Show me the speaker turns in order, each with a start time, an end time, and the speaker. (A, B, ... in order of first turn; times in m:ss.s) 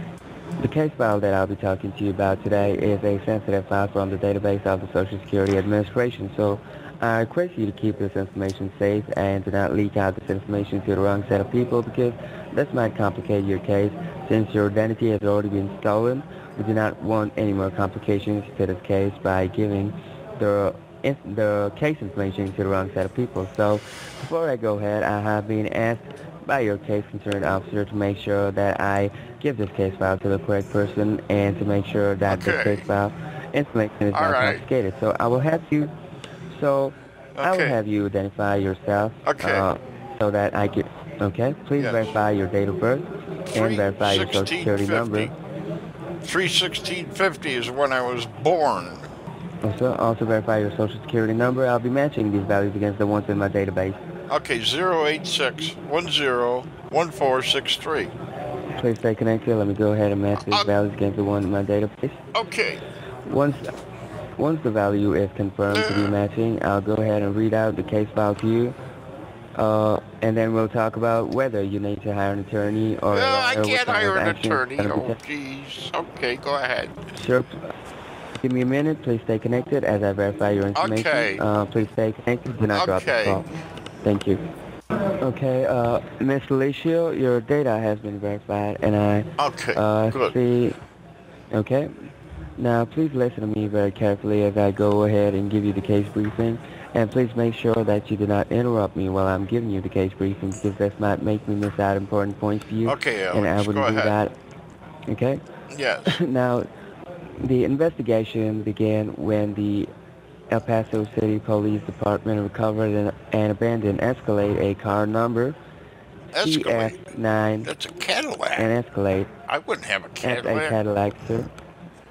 0:00.6-0:35.9 A
0:32.3-0:32.9 B
0:34.1-0:34.6 B
0:36.5-0:45.3 A
0:37.4-0:37.8 B
0:39.2-0:39.7 B
0:41.8-0:42.2 B
0:43.5-0:45.3 B
0:46.2-0:49.0 B
0:49.6-0:54.0 A
0:54.3-0:58.1 B
0:58.8-1:02.2 A
1:00.4-1:00.7 B
1:02.3-1:02.8 B
1:03.3-1:03.7 A
1:04.4-1:08.8 A
1:05.7-1:06.2 B
1:09.6-1:15.2 A
1:13.1-1:17.0 B
1:17.2-1:17.7 A
1:18.4-1:23.5 A
1:20.8-1:21.4 B
1:22.7-1:23.5 B
1:24.0-1:24.4 A
1:25.2-1:30.8 A
1:29.4-1:30.4 B
1:31.5-1:32.1 A
1:32.6-1:44.3 A
1:42.8-1:44.2 B
1:45.1-1:45.4 A
1:45.7-1:46.2 B
1:46.1-1:46.7 A
1:47.4-1:49.9 A
1:50.5-1:55.6 A
1:56.3-1:57.0 B
1:56.4-1:57.7 A
1:57.6-1:58.7 B
1:58.6-1:59.3 A
1:59.5-2:00.8 B
2:00.2-2:01.5 A